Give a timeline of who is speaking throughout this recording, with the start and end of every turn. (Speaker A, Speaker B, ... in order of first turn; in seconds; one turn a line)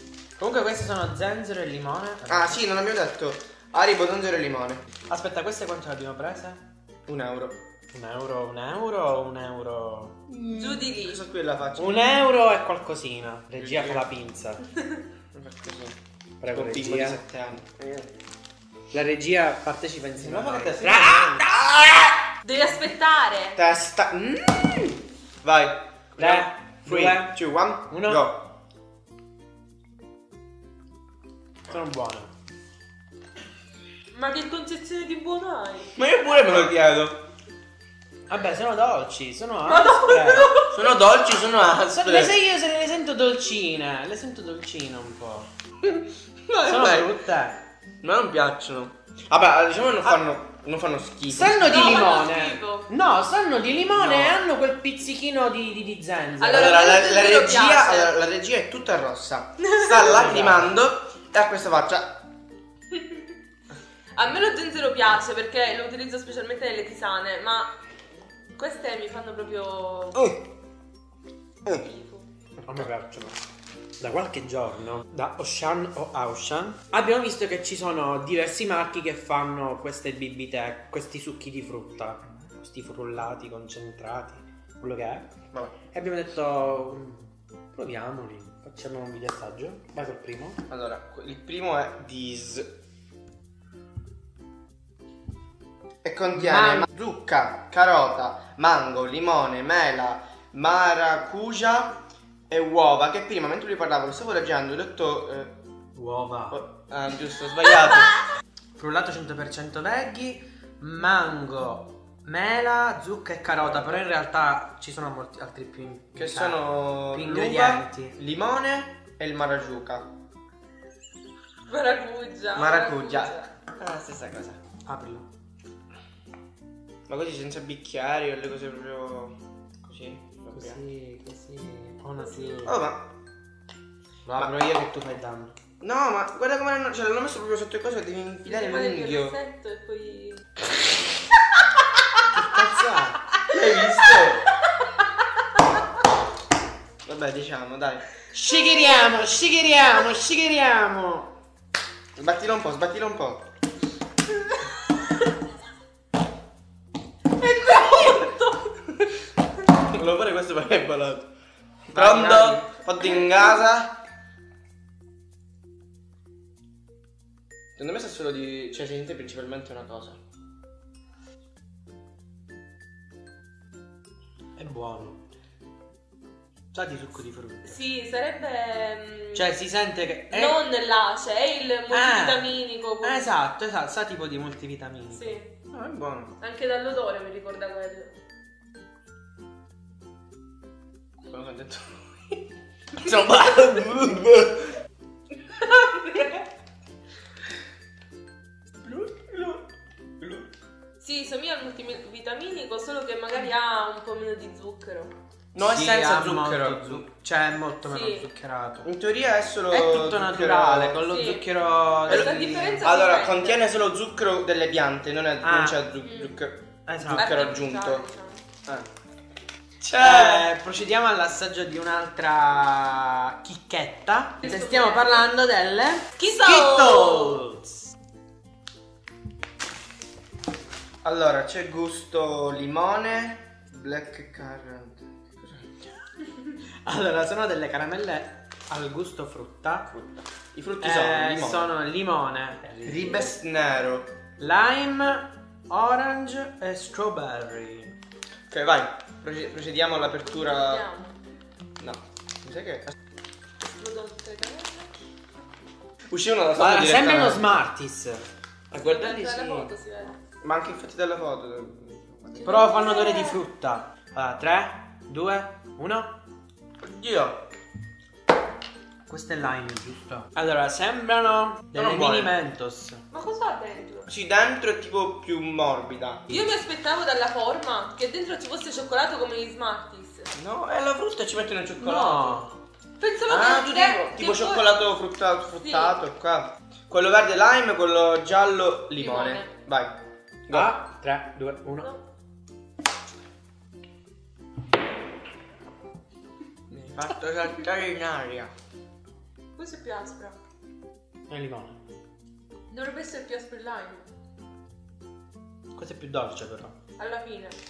Speaker A: 0.4-2.6
Speaker B: 2.3-4.8
Speaker A: 5.1-6.6
Speaker B: 7.1-7.6
Speaker A: 7.9-10.2
Speaker B: 10.3-12.0
Speaker C: 10.5-11.2
Speaker A: 11.8-14.6
Speaker B: 13.6-14.1
Speaker B: 15.3-18.1
Speaker A: 16.4-17.2
Speaker A: 18.9-22.2
Speaker B: 20.2-21.5
Speaker C: 22.4-23.6
Speaker B: 23.6-28.4
Speaker A: 26.2-27.4
Speaker A: 27.9-28.2
Speaker A: 31.7-32.3
Speaker C: 34.1-35.9
Speaker B: 36.0-37.2
Speaker A: 38.3-40.6
Speaker C: 39.7-40.7
Speaker B: 40.7-42.4
Speaker A: 41.9-45.5
Speaker B: 46.5-47.1
Speaker A: 46.6-47.6
Speaker B: 48.0-52.1
Speaker A: 51.3-56.9
Speaker C: 51.6-52.9
Speaker B: 54.0-54.4
Speaker C: 56.4-58.1
Speaker B: 56.5-62.2
Speaker A: 60.0-60.8
Speaker C: 63.0-63.2
Speaker C: 64.2-67.7
Speaker C: 68.5-70.2
Speaker C: 71.7-72.3
Speaker A: 72.7-73.4
Speaker A: 74.0-85.3
Speaker A: 85.9-90.6
Speaker B: 90.7-92.7
Speaker B: 96.0-105.5
Speaker A: 96.3-96.9
Speaker A: 106.0-106.6
Speaker B: 106.5-108.2
Speaker A: 108.8-118.2
Speaker B: 113.6-114.0
Speaker B: 116.2-120.1
Speaker C: 121.7-123.5
Speaker B: 122.5-124.6
Speaker A: 124.9-125.3
Speaker B: 127.1-130.8
Speaker A: 130.5-132.8
Speaker C: 132.2-132.7
Speaker B: 132.7-133.0
Speaker A: 134.3-135.6
Speaker B: 135.8-139.3
Speaker C: 138.4-140.5
Speaker A: 142.3-143.2
Speaker B: 143.5-144.4
Speaker C: 143.5-144.5
Speaker B: 147.1-148.1
Speaker A: 148.3-151.3
Speaker B: 152.2-153.4
Speaker C: 157.4-158.7
Speaker B: 159.9-161.3
Speaker A: 161.9-162.8
Speaker B: 161.9-164.0
Speaker B: 167.8-170.2
Speaker A: 174.6-175.2
Speaker A: 176.7-177.8
Speaker C: 177.6-179.5
Speaker A: 179.3-180.6
Speaker C: 180.3-183.3
Speaker A: 181.9-185.3
Speaker C: 185.1-185.5
Speaker B: 185.7-186.4
Speaker C: 186.4-188.1
Speaker B: 191.3-192.4
Speaker B: 192.9-194.8
Speaker C: 195.8-196.3
Speaker B: 198.8-199.6
Speaker B: 200.2-200.5
Speaker C: 201.0-205.1
Speaker B: 205.5-207.1
Speaker A: 205.6-208.9
Speaker C: 207.8-208.3
Speaker B: 208.8-211.0
Speaker A: 209.7-212.8
Speaker C: 211.0-211.5
Speaker C: 212.1-213.6
Speaker B: 212.1-218.0
Speaker A: 215.4-215.8
Speaker C: 216.0-216.4
Speaker A: 216.9-217.3
Speaker C: 217.1-218.4
Speaker B: 219.8-220.5
Speaker A: 219.9-227.9
Speaker C: 224.4-225.2
Speaker C: 226.2-227.4
Speaker B: 231.0-235.6
Speaker A: 236.8-239.9
Speaker B: 240.5-241.7
Speaker A: 240.8-243.1
Speaker B: 242.8-244.1
Speaker C: 243.0-243.3
Speaker A: 244.4-247.9
Speaker B: 248.5-250.8
Speaker C: 250.2-251.2
Speaker B: 251.8-252.9
Speaker C: 253.7-254.9
Speaker B: 256.1-257.6
Speaker A: 256.6-259.7
Speaker C: 258.7-260.2
Speaker B: 260.4-262.9
Speaker C: 262.4-263.4
Speaker A: 262.5-266.1
Speaker B: 266.8-267.4
Speaker A: 269.1-273.0
Speaker B: 271.8-272.3
Speaker C: 273.1-274.1
Speaker B: 274.1-276.3
Speaker C: 276.3-280.3
Speaker B: 280.4-282.4
Speaker A: 281.8-282.5
Speaker C: 283.0-284.8
Speaker B: 283.3-289.9
Speaker C: 285.6-286.0
Speaker C: 289.0-289.5
Speaker B: 290.5-290.8
Speaker A: 290.5-291.9
Speaker B: 296.7-298.5
Speaker C: 299.6-300.4
Speaker A: 301.3-301.8
Speaker C: 302.7-304.1
Speaker A: 305.8-306.8
Speaker C: 307.0-307.6